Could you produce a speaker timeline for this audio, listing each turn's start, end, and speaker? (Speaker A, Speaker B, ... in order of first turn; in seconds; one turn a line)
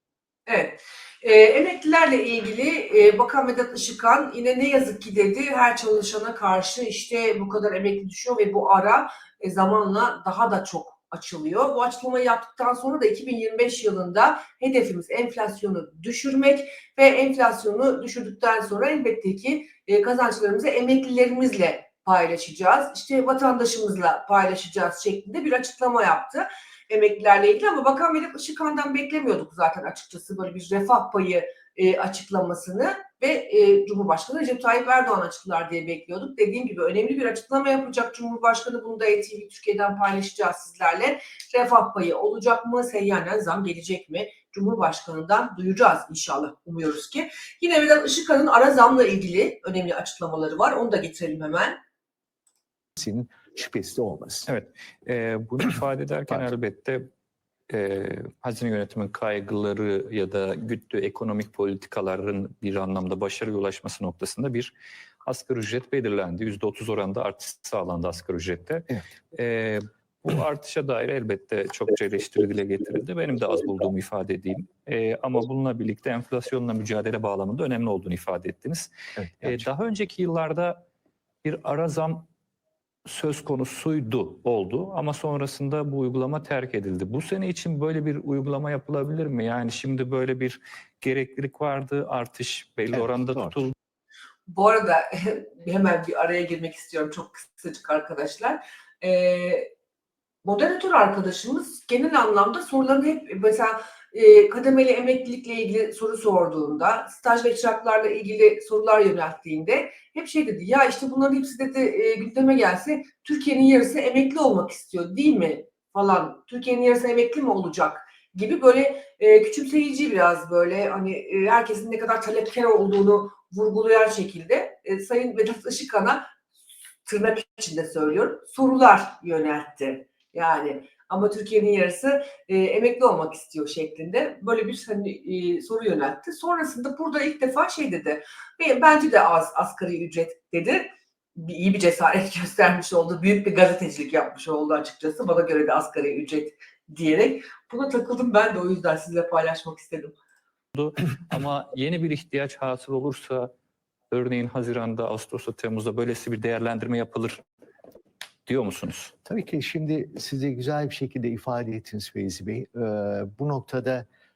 Speaker A: 0.5-51.8
Speaker B: 53.0-54.5
Speaker C: 54.5-57.0
Speaker C: 57.7-64.7
Speaker C: 65.3-78.9
Speaker B: 79.2-79.6
Speaker C: 79.4-80.8
Speaker C: 81.4-82.3
Speaker C: 83.1-93.7
Speaker B: 92.9-93.6
Speaker A: 94.5-99.7
Speaker A: 100.4-126.3
Speaker A: 127.0-150.2
Speaker C: 150.8-153.5
Speaker C: 154.1-157.4
Speaker C: 158.5-159.1
Speaker B: 159.2-164.1